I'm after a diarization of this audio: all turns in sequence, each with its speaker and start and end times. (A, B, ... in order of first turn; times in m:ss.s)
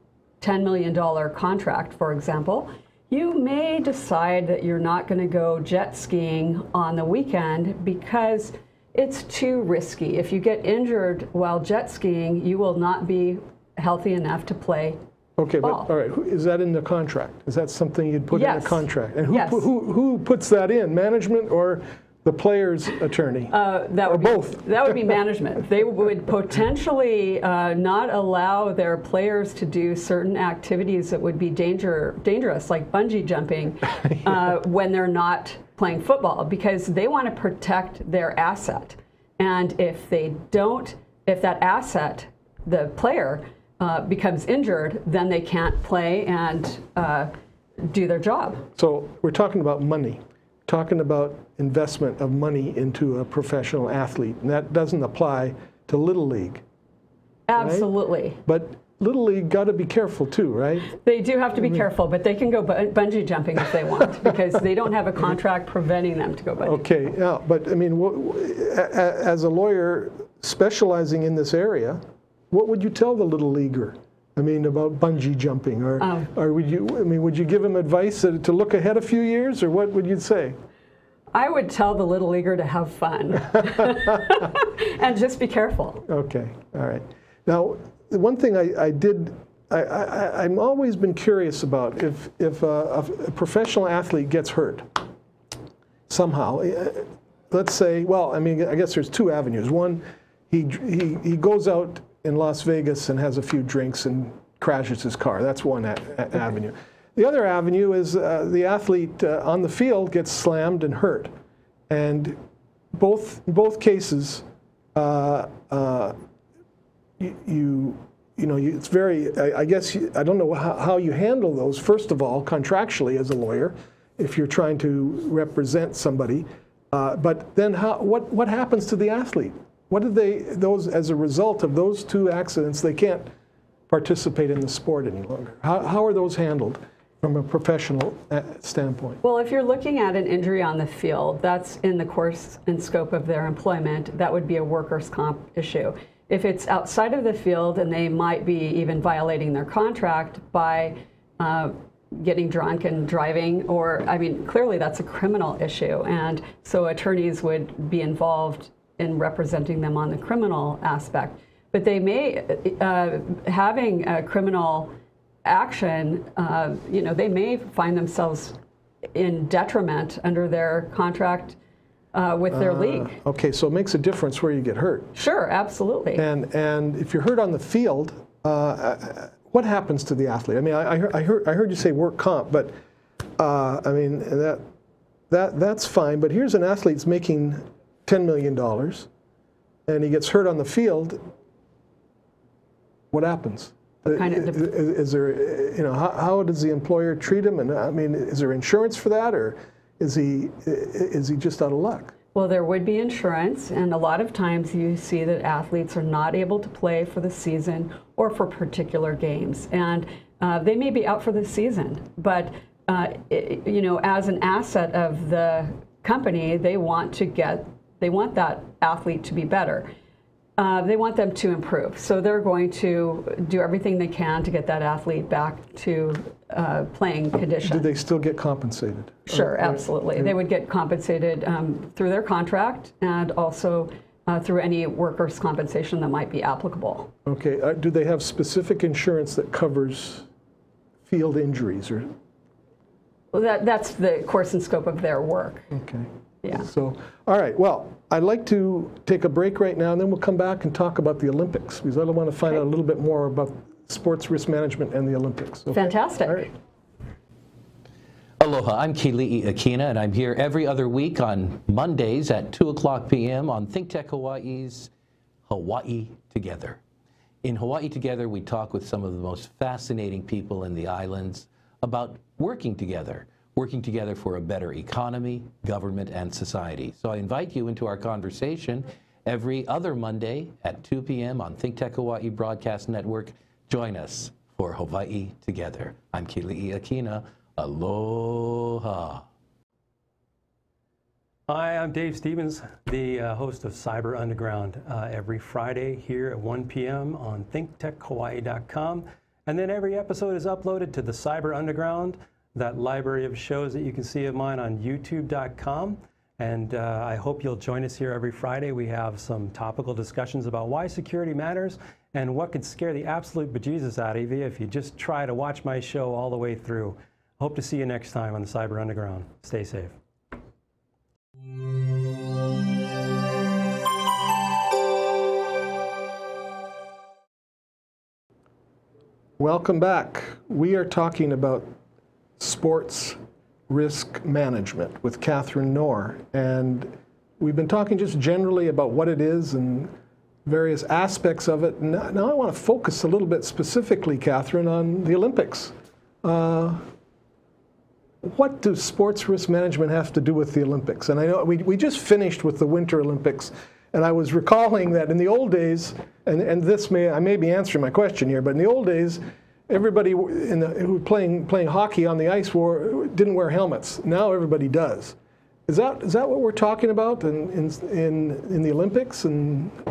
0:00.4-0:15.0 A
0:15.4-0:25.2 B
0:15.6-0:15.9 A
0:18.3-0:19.7 A
0:23.5-0:47.3 A
0:47.9-0:48.6 A
0:48.8-0:56.6 B
0:57.5-0:58.4 A
0:57.6-0:57.9 B
0:58.4-1:00.9 B
1:01.0-1:06.8 A
1:06.6-1:20.6 B
1:16.0-1:16.3 A
1:21.3-1:26.0 A
1:26.1-1:35.0 B
1:36.1-1:51.3 B
1:51.9-1:52.4 B
1:53.0-1:56.2 B
1:57.2-2:13.3 B
2:13.9-2:19.2 B
2:19.2-2:44.9 A
2:45.4-2:48.6 A
2:49.1-2:51.6 A
2:52.1-2:53.2 A
2:52.5-2:55.1 B
2:55.2-2:56.2 A
2:56.2-3:02.7 B
3:03.4-3:04.6 B
3:05.3-3:09.1 B
3:09.9-3:11.2 B
3:13.1-3:22.1 B
3:14.1-3:14.7 A
3:22.3-3:39.9 A
3:40.6-3:47.9 A
3:47.6-3:50.4 B
3:49.3-3:57.1 A
3:57.2-4:00.3 B
4:01.1-4:02.1 B
4:03.3-4:05.7 A
4:05.7-4:16.5 B
4:15.7-4:16.5 A
4:18.4-4:24.9 C
4:25.5-4:26.8 C
4:27.4-4:49.2 C
4:51.5-5:20.0 D
5:29.4-5:31.7 B
5:32.4-5:33.2 B
5:33.7-5:39.9 B
5:40.4-5:46.8 B
5:48.2-6:05.2 B
6:05.7-6:09.8 B